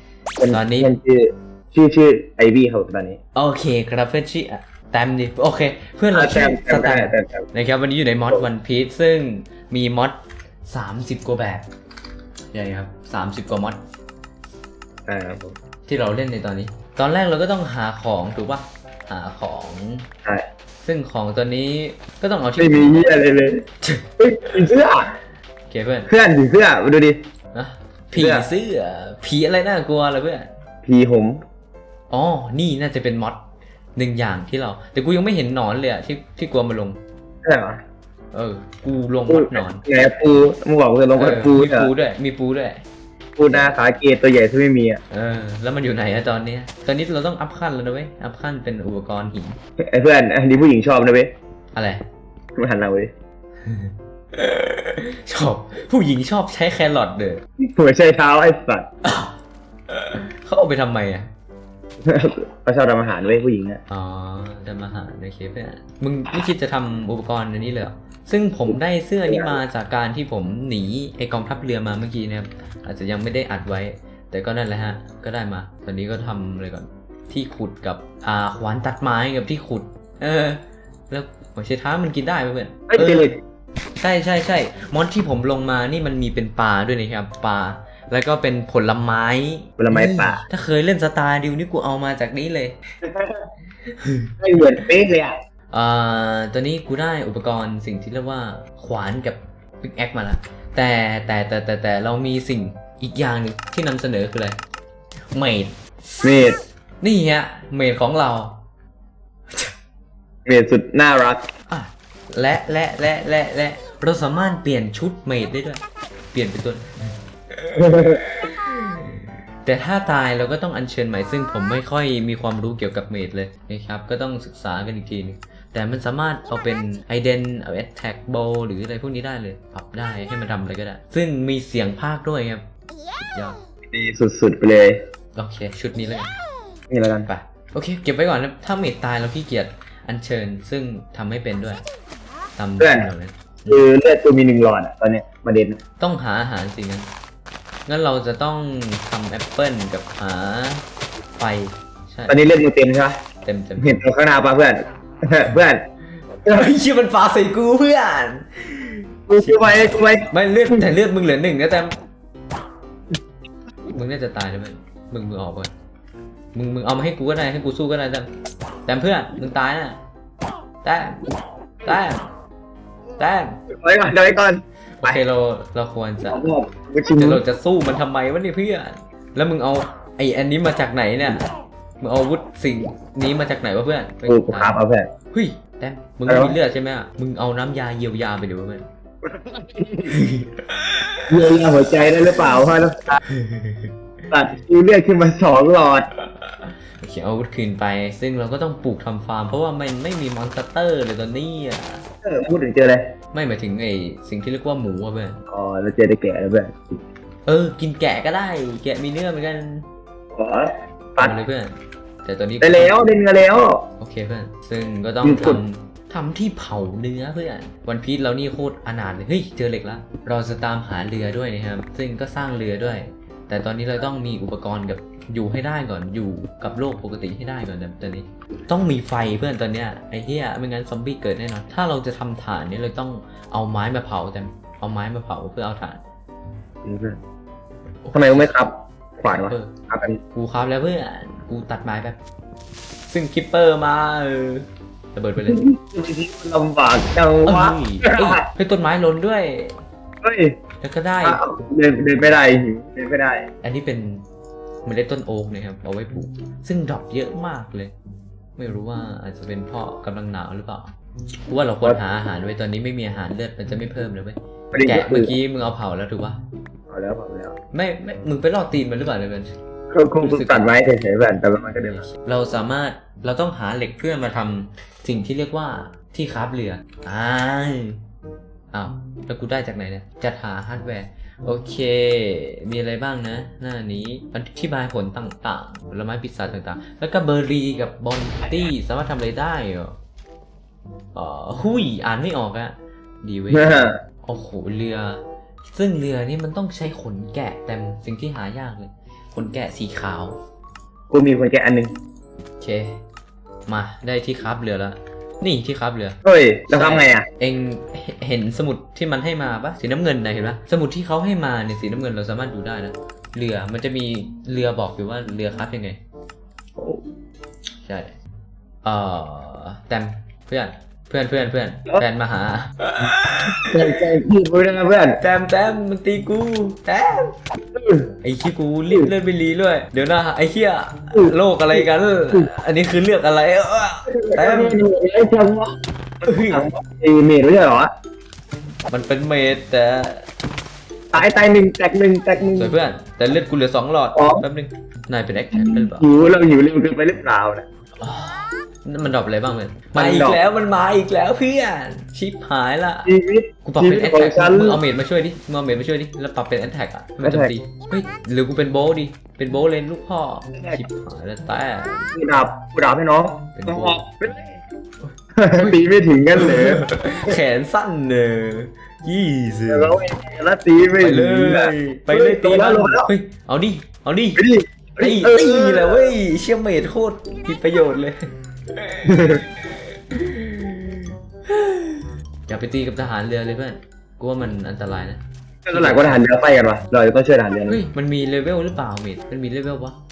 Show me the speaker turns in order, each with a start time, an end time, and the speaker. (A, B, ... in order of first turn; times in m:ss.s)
0:00.4-0:03.2 A
0:00.5-0:01.0 B
0:03.4-0:11.7 B
0:06.1-0:07.5 A
0:12.5-0:13.8 B
0:15.1-0:15.6 A
0:15.9-0:20.1 B
0:20.8-0:23.1 B
0:22.6-0:23.6 A
0:24.2-0:25.1 A
0:25.7-0:26.1 B
0:26.1-0:27.2 A
0:27.5-0:30.5 B
0:28.1-0:28.5 A
0:30.8-0:31.4 A
0:32.1-0:33.4 B
0:34.0-0:37.0 B
0:37.4-0:37.8 A
0:38.3-0:39.8 B
0:39.3-0:41.9 A
0:41.2-0:42.8 B
0:43.4-0:45.0 A
0:45.1-0:49.6 B
0:49.8-0:51.3 A
0:51.7-0:52.0 B
0:52.6-0:53.1 A
0:53.6-0:57.4 B
0:57.6-0:58.9 A
0:59.0-0:59.4 B
0:59.9-1:01.3 B
1:02.0-1:03.8 A
1:03.9-1:23.3 B
1:08.7-1:09.6 A
1:22.9-1:23.4 A
1:24.0-1:32.8 B
1:29.8-1:30.4 A
1:33.0-1:33.4 A
1:33.9-1:34.3 B
1:34.4-1:35.4 A
1:35.7-1:44.6 B
1:45.3-1:45.8 B
1:46.2-1:46.6 A
1:47.0-1:48.6 B
1:50.5-1:51.4 A
1:51.7-1:55.8 B
1:56.3-1:56.9 B
1:57.5-2:13.6 B
1:57.8-1:58.2 A
2:13.9-2:15.0 A
2:15.4-2:16.3 B
2:16.9-2:17.3 A
2:17.3-2:21.8 B
2:22.6-2:23.8 B
2:22.8-2:23.1 A
2:23.7-2:25.8 A
2:26.0-2:27.1 B
2:27.9-2:30.8 B
2:31.4-2:32.4 B
2:32.3-2:33.2 A
2:33.4-2:34.0 B
2:33.8-2:35.8 A
2:36.4-2:41.9 B
2:36.5-2:36.7 A
2:39.3-2:40.8 A
2:43.9-2:45.7 B
2:46.5-2:48.3 B
2:48.8-2:50.0 B
2:50.8-2:51.2 B
2:51.8-2:52.2 B
2:53.2-2:53.6 B
2:53.8-2:55.2 A
2:55.0-2:56.4 B
2:56.3-2:57.4 A
2:57.2-3:01.4 B
3:02.0-3:04.8 B
3:04.3-3:05.1 A
3:05.3-3:08.9 B
3:06.3-3:06.6 A
3:09.2-3:10.2 A
3:10.1-3:11.3 B
3:11.3-3:13.2 A
3:13.3-3:14.0 B
3:14.3-3:16.1 A
3:16.2-3:22.0 B
3:22.2-3:23.1 A
3:23.3-3:25.4 B
3:25.5-3:26.8 A
3:27.5-3:29.9 B
3:30.3-3:31.4 A
3:31.2-3:33.0 B
3:32.6-3:33.8 A
3:34.0-3:56.0 B
3:35.2-3:35.6 A
3:56.8-3:57.2 A
3:58.0-3:58.6 B
3:58.1-4:00.2 A
3:59.3-3:59.8 B
4:00.3-4:02.2 B
4:03.1-4:05.6 B
4:05.4-4:08.4 A
4:07.4-4:09.8 B
4:10.2-4:10.6 A
4:10.8-4:11.4 B
4:11.2-4:13.5 A
4:13.6-4:14.2 B
4:14.8-4:17.9 B
4:18.6-4:20.9 B
4:21.5-4:26.4 B
4:24.7-4:25.3 A
4:26.9-4:27.6 A
4:27.7-4:29.5 B
4:29.9-4:32.1 A
4:30.2-4:30.7 B
4:31.6-4:38.0 B
4:38.7-4:50.0 B
4:51.2-5:00.4 B
4:53.5-4:54.0 A
5:01.1-5:01.9 A
5:02.6-5:03.0 B
5:03.7-5:06.2 B
5:06.2-5:07.3 A
5:06.7-5:16.0 B
5:16.8-5:17.0 A
5:17.8-5:18.1 B
5:18.8-5:24.0 B
5:23.0-5:25.2 A
5:25.2-5:27.3 B
5:27.8-5:28.1 A
5:28.2-5:34.8 B
5:31.1-5:32.5 A
5:34.1-5:37.9 A
5:36.2-5:36.7 B
5:38.9-5:40.3 B
5:41.1-5:42.7 A
5:42.6-5:46.1 B
5:44.2-5:44.5 A
5:45.6-5:47.7 A
5:48.0-5:53.1 B
5:50.0-5:50.4 A
5:53.1-5:54.8 A
5:53.6-6:02.2 B
5:57.2-5:57.5 A
6:02.1-6:04.5 A
6:03.5-6:04.1 B
6:05.0-6:05.8 B
6:05.4-6:07.3 A
6:06.4-6:10.0 B
6:09.7-6:13.1 A
6:11.0-6:14.4 B
6:14.4-6:16.1 A
6:15.0-6:18.2 B
6:18.7-6:26.3 B
6:19.1-6:19.4 A
6:25.6-6:27.8 A
6:27.7-6:30.0 B